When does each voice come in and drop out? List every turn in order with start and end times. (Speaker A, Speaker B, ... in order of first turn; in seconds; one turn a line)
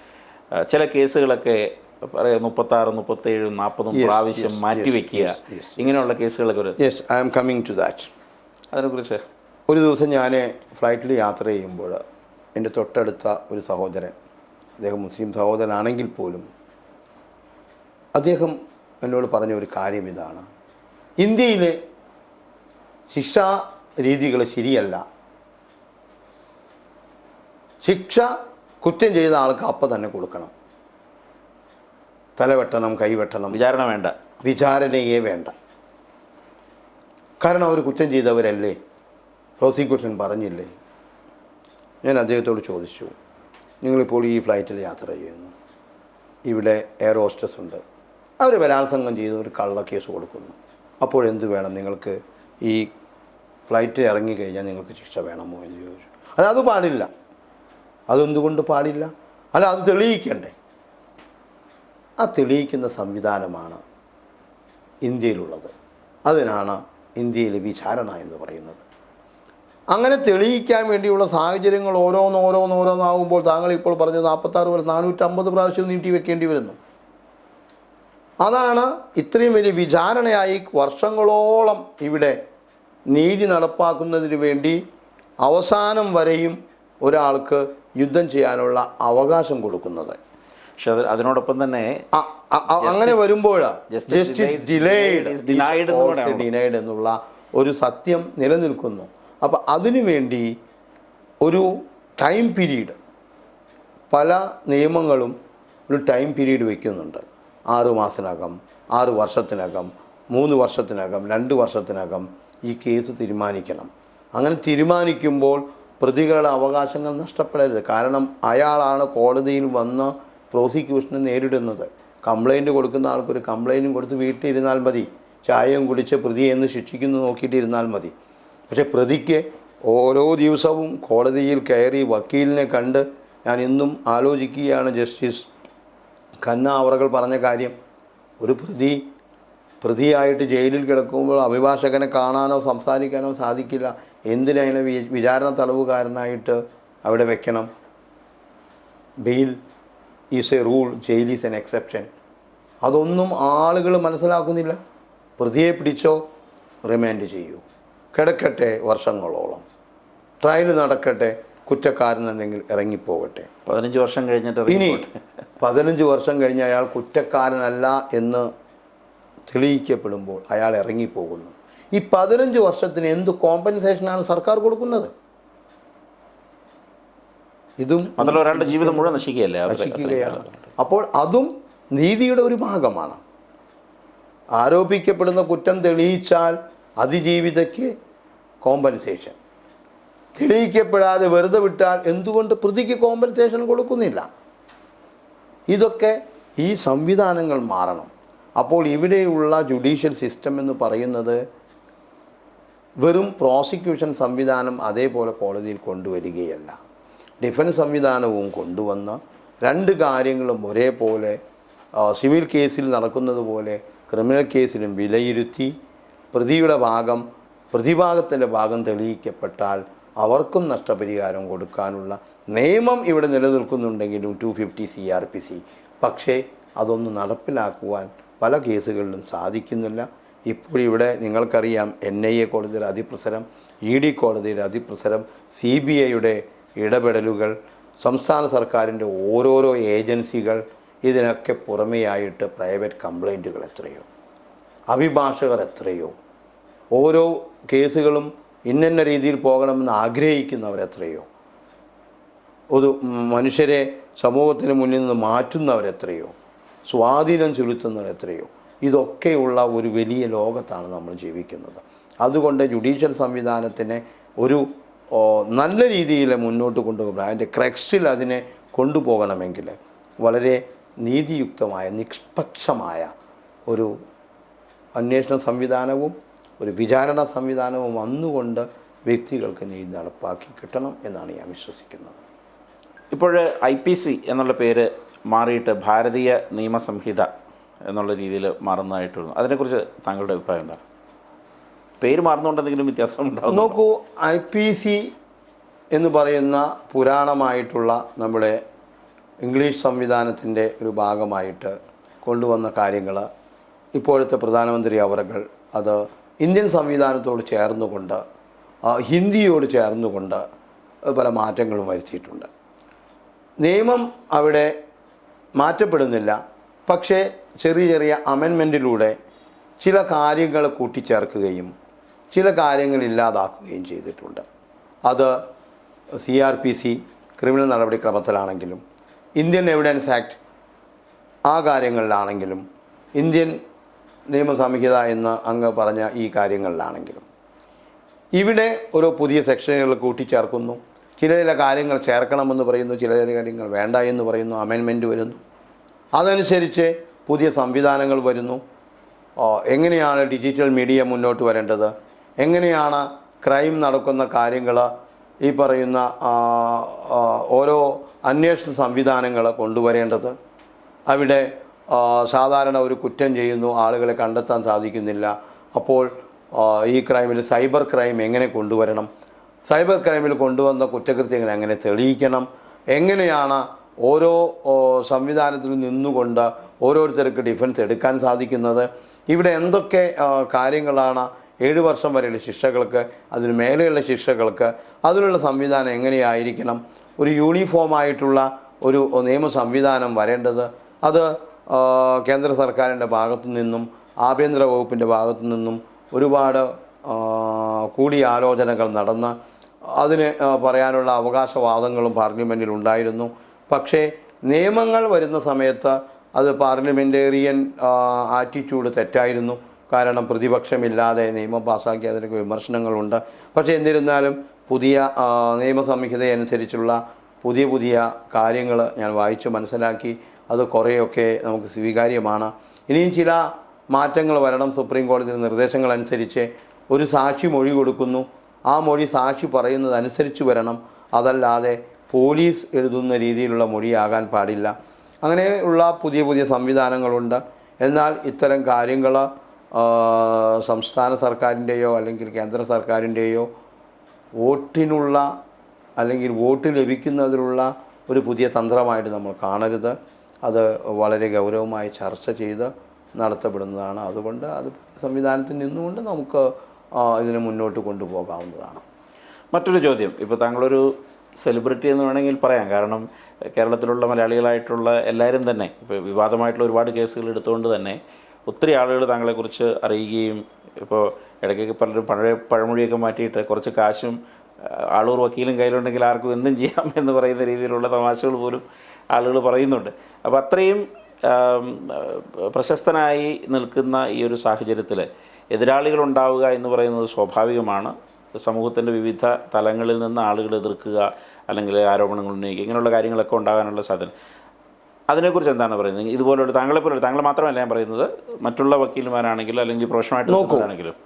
Speaker A: 0.6-6.8
Speaker B: 3.9-5.8
Speaker B: 6.8-8.1
Speaker A: 8.7-9.2
Speaker B: 9.7-12.0
Speaker B: 12.6-14.1
Speaker B: 14.8-16.4
Speaker B: 18.1-20.4
Speaker B: 21.2-21.8
Speaker B: 23.1-25.0
Speaker B: 27.8-28.3
Speaker B: 28.8-30.5
Speaker B: 32.4-33.6
Speaker A: 33.5-34.1
Speaker B: 34.4-35.5
Speaker B: 37.4-38.8
Speaker B: 39.6-40.7
Speaker B: 42.0-43.1
Speaker B: 43.8-45.5
Speaker B: 46.5-47.8
Speaker B: 48.4-52.9
Speaker B: 53.7-57.1
Speaker B: 58.1-60.5
Speaker B: 62.2-63.8
Speaker B: 65.0-65.7
Speaker B: 66.2-68.8
Speaker B: 69.9-76.8
Speaker B: 78.4-82.4
Speaker B: 83.1-84.8
Speaker B: 85.4-90.2
Speaker A: 90.8-92.0
Speaker B: 92.1-100.5
Speaker A: 92.6-93.2
Speaker A: 93.9-96.5
Speaker B: 101.4-103.0
Speaker B: 104.1-105.3
Speaker B: 105.9-128.1
Speaker B: 128.7-135.5
Speaker B: 136.4-137.7
Speaker B: 138.4-139.0
Speaker B: 139.8-147.7
Speaker B: 149.2-149.6
Speaker B: 150.3-152.1
Speaker B: 152.8-154.8
Speaker B: 155.4-156.2
Speaker B: 156.8-157.6
Speaker B: 158.1-159.6
Speaker B: 160.4-163.5
Speaker A: 163.7-165.1
Speaker B: 164.7-165.1
Speaker B: 165.6-168.5
Speaker B: 169.5-175.1
Speaker B: 177.8-183.2
Speaker A: 178.2-180.6
Speaker B: 184.6-187.9
Speaker B: 188.6-189.3
Speaker B: 190.3-194.3
Speaker B: 195.7-201.4
Speaker B: 203.0-206.8
Speaker B: 207.4-211.4
Speaker B: 211.9-215.7
Speaker B: 216.3-244.1
Speaker B: 244.9-246.1
Speaker B: 246.9-251.2
Speaker B: 252.7-256.3
Speaker B: 256.9-273.1
Speaker B: 273.7-273.9
Speaker B: 275.0-282.2
Speaker A: 283.1-287.3
Speaker A: 287.8-290.8
Speaker A: 292.0-293.8
Speaker B: 293.5-295.1
Speaker B: 295.9-298.6
Speaker B: 299.4-303.2
Speaker B: 303.9-308.2
Speaker B: 308.8-310.4
Speaker B: 311.1-312.5
Speaker B: 313.6-314.7
Speaker B: 315.6-319.1
Speaker B: 319.8-321.7
Speaker B: 322.3-324.4
Speaker B: 325.0-325.4
Speaker B: 326.2-328.8
Speaker B: 329.4-330.4
Speaker B: 331.5-332.6
Speaker B: 333.1-333.6
Speaker B: 334.3-337.2
Speaker B: 338.3-345.4
Speaker B: 346.1-348.6
Speaker B: 349.4-354.9
Speaker B: 355.4-360.3
Speaker B: 361.1-369.1
Speaker B: 369.7-399.3
Speaker B: 399.9-443.5
Speaker B: 444.4-445.3
Speaker B: 446.0-458.8
Speaker A: 459.5-494.1
Speaker A: 495.1-500.9
Speaker B: 500.3-500.7